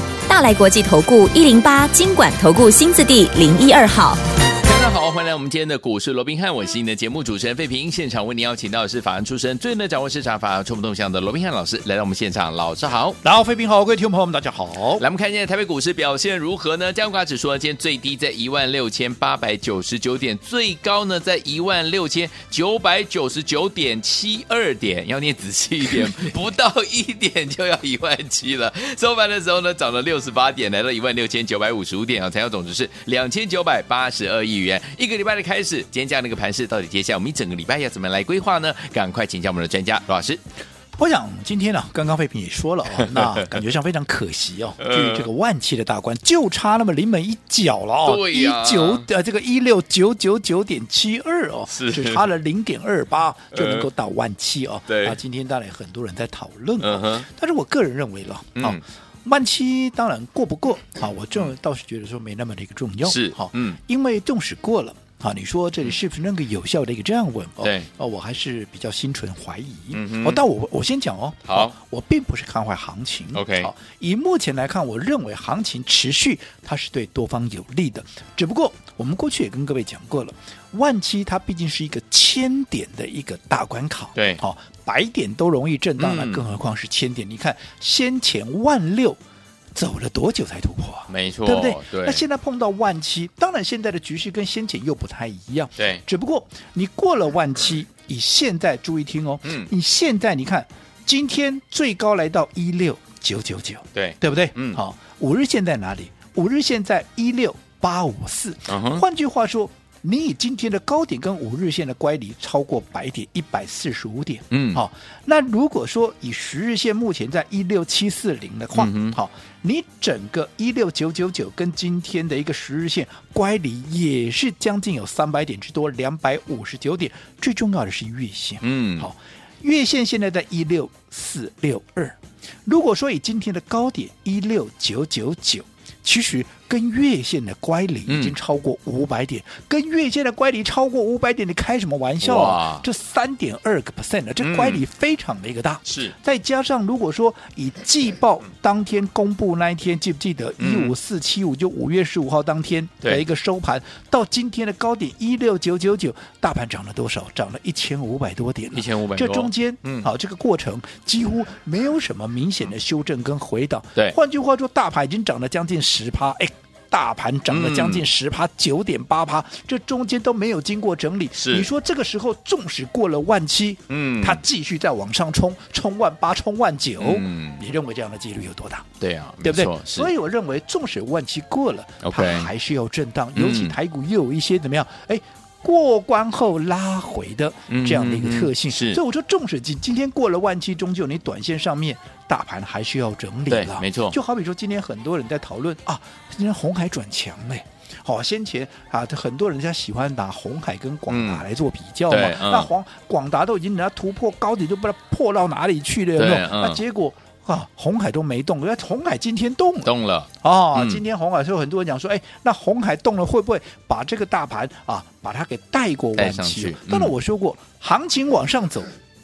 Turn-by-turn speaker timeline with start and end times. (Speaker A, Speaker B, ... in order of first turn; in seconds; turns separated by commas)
Speaker A: 0.3-4.2, Speaker B: 4.6-13.2, Speaker C: 13.2-15.0, Speaker B: 15.0-40.4, Speaker C: 41.0-89.2, Speaker B: 42.9-43.5, Speaker B: 44.8-45.3, Speaker B: 48.0-49.1, Speaker B: 51.7-52.3, Speaker B: 53.5-53.9, Speaker B: 54.9-55.2, Speaker B: 56.8-57.3, Speaker B: 58.6-58.8, Speaker B: 63.0-63.8, Speaker B: 67.6-67.9, Speaker B: 69.9-70.4, Speaker B: 71.5-71.7, Speaker B: 73.3-73.7, Speaker B: 84.2-84.4, Speaker B: 86.0-86.5, Speaker C: 89.8-178.9, Speaker B: 91.1-92.2, Speaker B: 95.8-96.0, Speaker B: 99.4-99.7, Speaker B: 103.9-104.8, Speaker B: 108.7-109.0, Speaker B: 114.5-114.8, Speaker B: 118.8-119.2, Speaker B: 128.6-129.1, Speaker B: 138.1-138.4, Speaker B: 142.2-142.9, Speaker B: 144.4-144.8, Speaker B: 145.8-146.1, Speaker B: 150.6-150.9, Speaker B: 158.7-160.1, Speaker B: 167.5-168.1, Speaker B: 171.4-171.7, Speaker B: 173.9-174.4, Speaker B: 177.0-177.7, Speaker B: 179.0-180.1, Speaker C: 179.4-218.9, Speaker B: 182.0-182.5, Speaker B: 183.4-183.8, Speaker B: 187.7-189.0, Speaker B: 193.5-194.2, Speaker B: 201.1-201.4, Speaker B: 202.1-202.7, Speaker B: 206.2-206.8, Speaker B: 209.8-211.0, Speaker B: 216.2-217.2